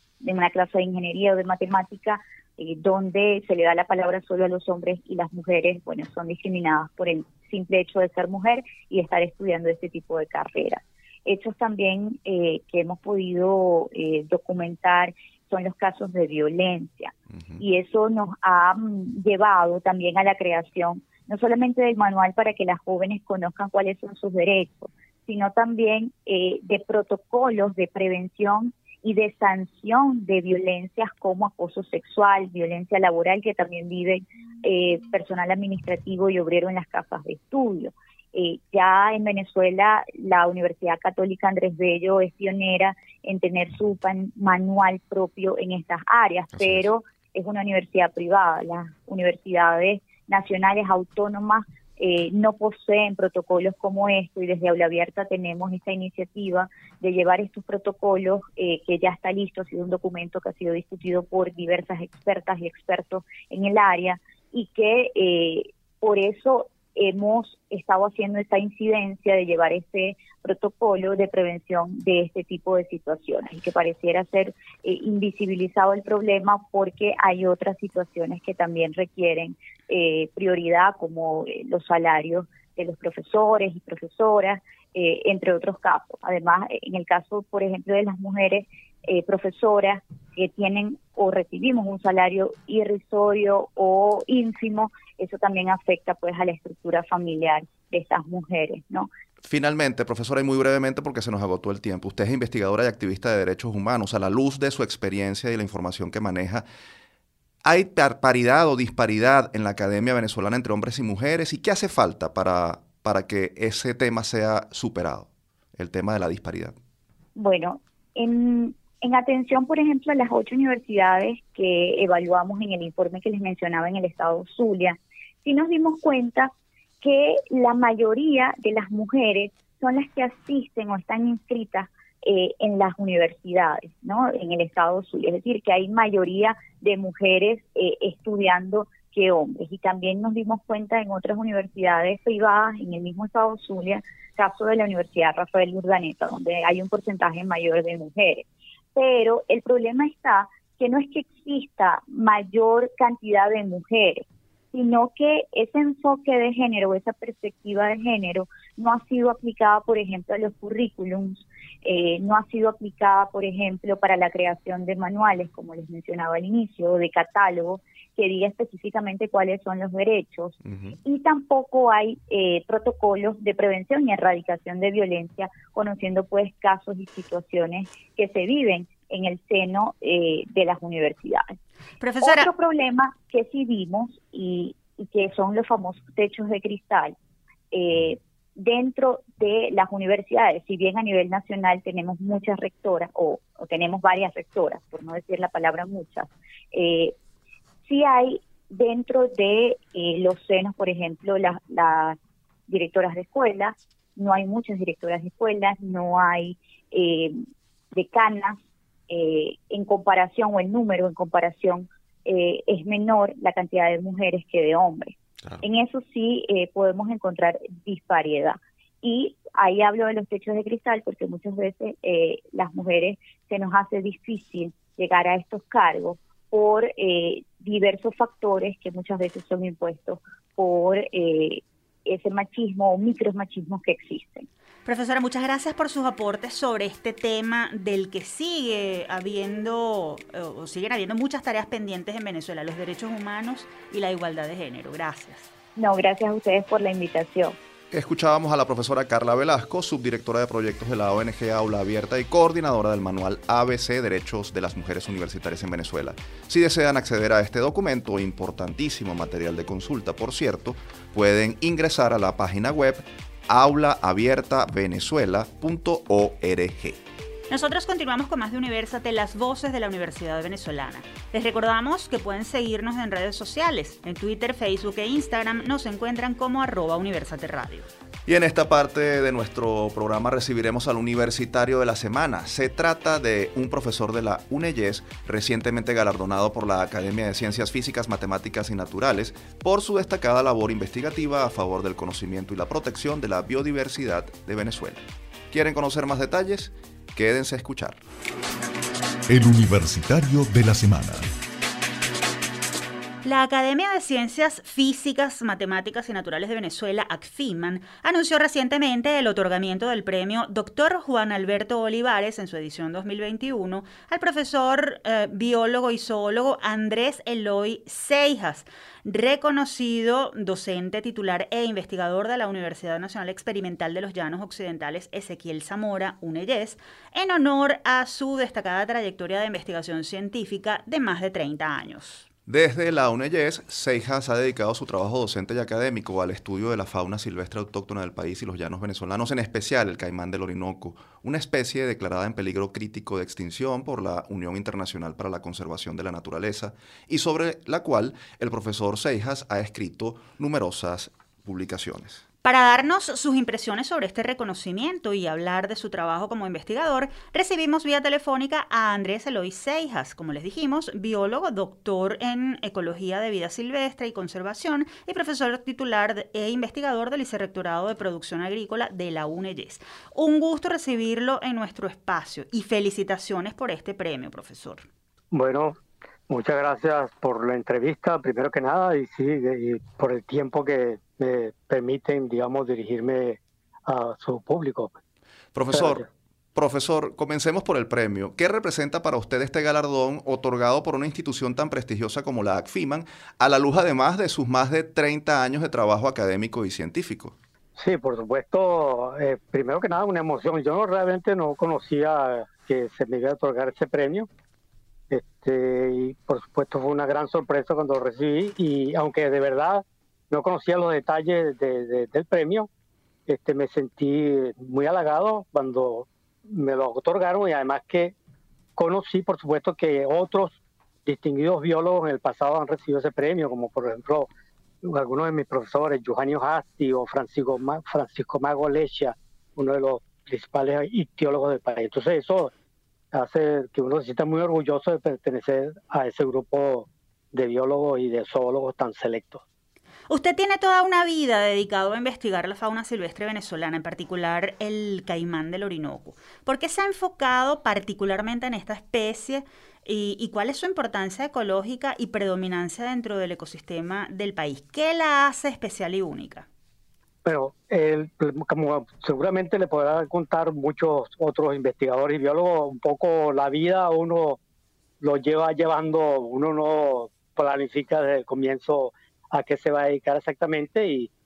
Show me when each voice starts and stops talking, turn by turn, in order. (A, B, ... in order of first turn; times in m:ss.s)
0:00.2-1:39.1 A
0:46.6-0:46.9 B
1:39.4-1:46.6 B
1:47.6-1:56.8 B
1:57.4-2:06.5 A
2:07.0-3:01.5 A
2:50.6-2:51.0 B
3:02.0-3:02.5 C
3:02.2-3:07.2 A
3:07.7-3:17.2 A
3:17.9-3:22.2 A
3:22.7-3:27.4 A
3:27.9-3:28.6 A
3:29.1-3:54.5 A
3:54.9-4:05.5 C
4:05.8-4:07.6 A
4:07.9-4:27.0 B
4:27.5-4:37.9 C
4:38.3-4:58.0 B
4:59.3-5:01.3 D
5:03.2-5:32.3 C
5:32.5-5:52.2 B
5:52.4-6:14.9 C
6:15.3-6:25.0 E
6:25.5-6:26.0 B
6:25.7-6:26.1 E
6:26.6-6:37.4 B
6:37.8-6:44.3 E
6:45.1-6:52.7 E
6:53.3-6:58.1 E
6:58.8-7:04.3 E
7:04.8-7:12.5 E
7:13.1-7:19.4 E
7:20.1-7:36.5 C
7:37.2-7:44.4 E
7:45.0-7:51.1 E